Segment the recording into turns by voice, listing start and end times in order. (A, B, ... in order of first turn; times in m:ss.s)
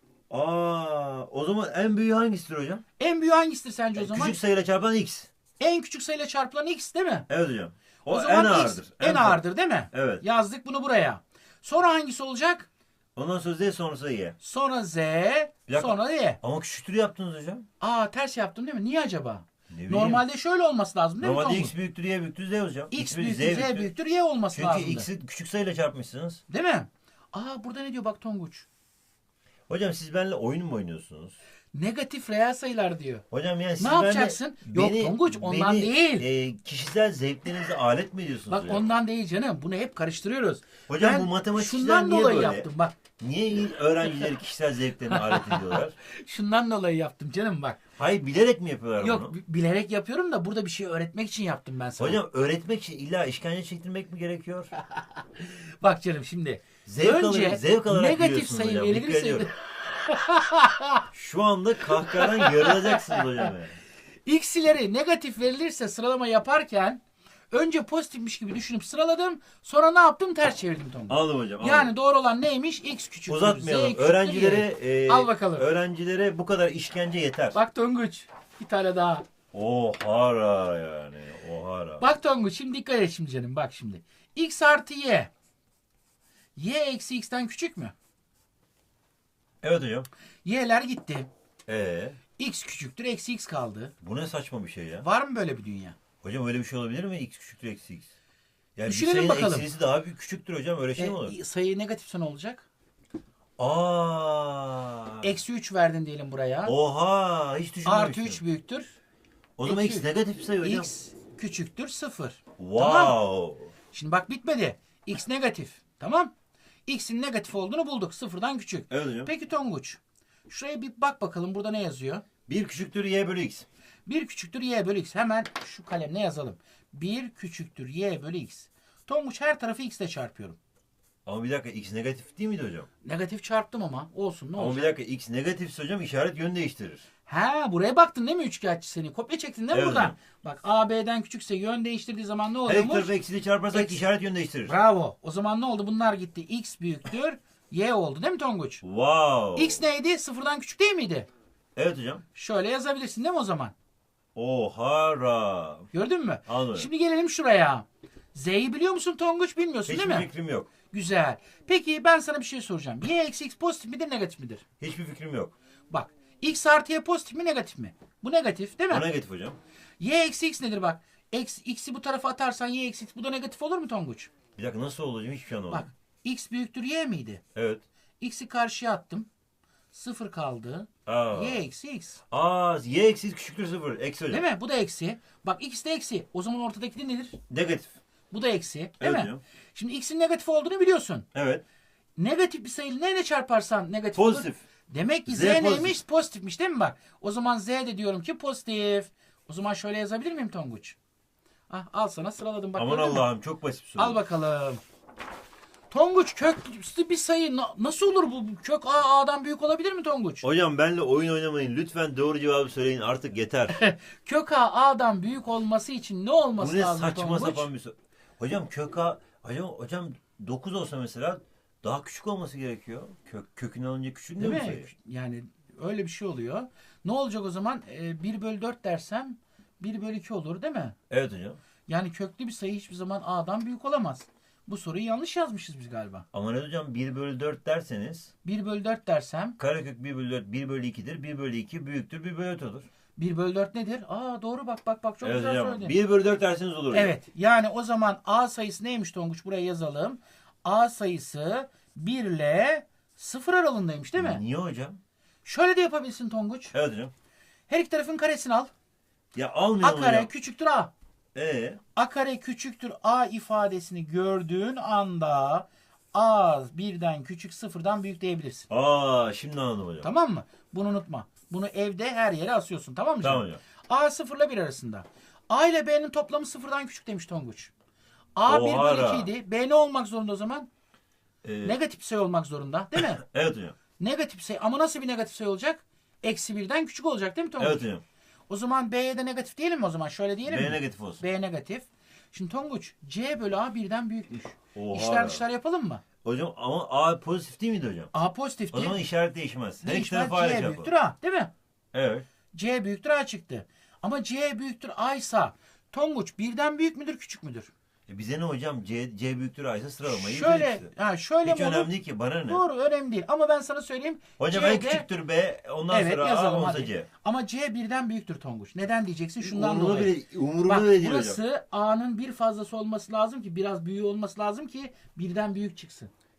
0:00.3-0:02.8 A
0:03.0-0:04.4 B
0:04.0-0:05.3 A
0:05.6-0:07.3 B
0:07.3-0:10.2 A
0:08.1-0:12.7 B
0:13.2-0:14.4 A
0:14.4-0:16.4 B
0:15.7-0:17.6 A
0:17.8-0:21.7 B
0:19.7-0:20.2 A
0:21.2-0:23.9 A
0:22.9-0:25.1 B
0:24.5-0:26.4 A
0:26.5-0:28.6 B
0:29.7-0:31.4 A
0:31.7-0:33.2 B
0:33.3-0:38.8 A
0:33.8-0:36.3 B
0:38.5-0:42.9 B
0:40.9-0:42.7 A
0:43.2-0:45.9 A
0:45.1-0:47.8 B
0:48.0-0:49.3 A
0:49.0-0:52.2 B
0:52.0-0:54.7 A
0:55.0-1:01.1 B
0:56.8-0:59.5 A
1:01.1-1:03.8 A
1:01.9-1:03.5 B
1:04.2-1:15.7 B
1:11.1-1:11.9 A
1:13.3-1:17.6 A
1:17.5-1:19.2 B
1:19.5-1:22.0 A
1:22.0-1:25.3 B
1:26.6-1:27.9 B
1:29.6-1:30.1 A
1:30.4-1:31.3 B
1:31.7-1:32.2 A
1:32.4-1:33.9 B
1:34.0-1:35.0 A
1:35.0-1:36.0 B
1:36.2-1:38.1 A
1:38.8-1:41.3 A
1:38.8-1:39.7 B
1:41.0-1:42.6 B
1:43.6-1:45.3 A
1:45.2-1:46.8 B
1:46.6-1:48.4 A
1:47.8-1:48.9 B
1:49.6-1:50.9 A
1:49.6-1:50.1 B
1:50.6-1:53.2 B
1:52.6-1:53.7 A
1:53.9-1:56.3 B
1:56.8-2:02.2 B
1:58.9-1:59.3 A
2:02.5-2:03.6 A
2:04.0-2:10.6 B
2:11.2-2:12.9 A
2:13.0-2:14.9 B
2:14.6-2:17.0 A
2:17.2-2:23.1 B
2:19.7-2:20.2 A
2:22.6-2:24.7 A
2:23.7-2:24.0 B
2:24.6-2:28.8 B
2:28.8-2:29.8 A
2:29.5-2:31.3 B
2:31.8-2:32.2 A
2:32.3-2:33.7 B
2:34.3-2:35.9 A
2:35.9-2:40.3 B
2:36.5-2:36.9 A
2:39.9-2:40.7 A
2:40.9-2:44.6 B
2:44.8-2:45.5 A
2:45.9-2:49.0 B
2:48.9-2:49.6 A
2:50.0-2:54.3 B
2:54.6-2:55.9 A
2:55.7-2:57.4 B
2:57.5-2:57.8 A
2:58.2-2:59.3 B
2:59.9-3:02.2 B
3:01.0-3:01.6 A
3:02.3-3:04.4 A
3:04.3-3:07.4 B
3:07.5-3:07.9 A
3:08.3-3:11.3 B
3:09.0-3:09.4 A
3:11.3-3:11.6 A
3:12.2-3:21.0 B
3:14.2-3:14.6 A
3:15.3-3:16.0 A
3:21.7-3:23.3 B
3:22.8-3:24.2 A
3:24.0-3:24.8 B
3:25.9-3:30.4 B
3:30.4-3:33.8 A
3:33.7-3:37.7 B
3:36.6-3:44.9 A
3:44.4-3:51.0 B
3:51.1-3:51.6 A
3:51.9-3:56.2 B
3:56.3-3:58.3 A
3:58.4-3:59.6 B
3:59.6-4:02.9 A
4:03.2-4:05.9 B
4:05.2-4:07.1 A
4:06.9-4:14.4 B
4:14.2-4:15.0 A
4:15.4-4:16.7 B
4:16.7-4:17.1 A
4:17.7-4:18.7 B
4:19.3-4:20.3 A
4:19.8-4:20.9 B
4:21.3-4:21.8 A
4:21.9-4:28.7 B
4:28.7-4:30.1 A
4:30.0-4:37.7 B
4:33.2-4:33.6 A
4:38.4-4:40.7 B
4:38.5-4:39.3 A
4:41.4-4:41.8 A
4:41.6-4:43.2 B
4:42.9-4:43.8 A
4:44.0-4:47.8 B
4:47.6-4:48.0 A
4:48.5-4:56.0 B
4:50.4-4:51.2 A
4:54.7-4:55.4 A
4:56.2-4:58.1 A
4:58.1-4:59.0 B
4:58.7-5:00.9 A
4:59.8-5:01.5 B
5:01.9-5:02.2 A
5:02.5-5:07.7 B
5:08.1-5:10.9 A
5:10.0-5:11.9 B
5:11.4-5:12.6 A
5:12.5-5:15.0 B
5:14.4-5:17.1 A
5:15.9-5:26.1 B
5:19.4-5:21.4 A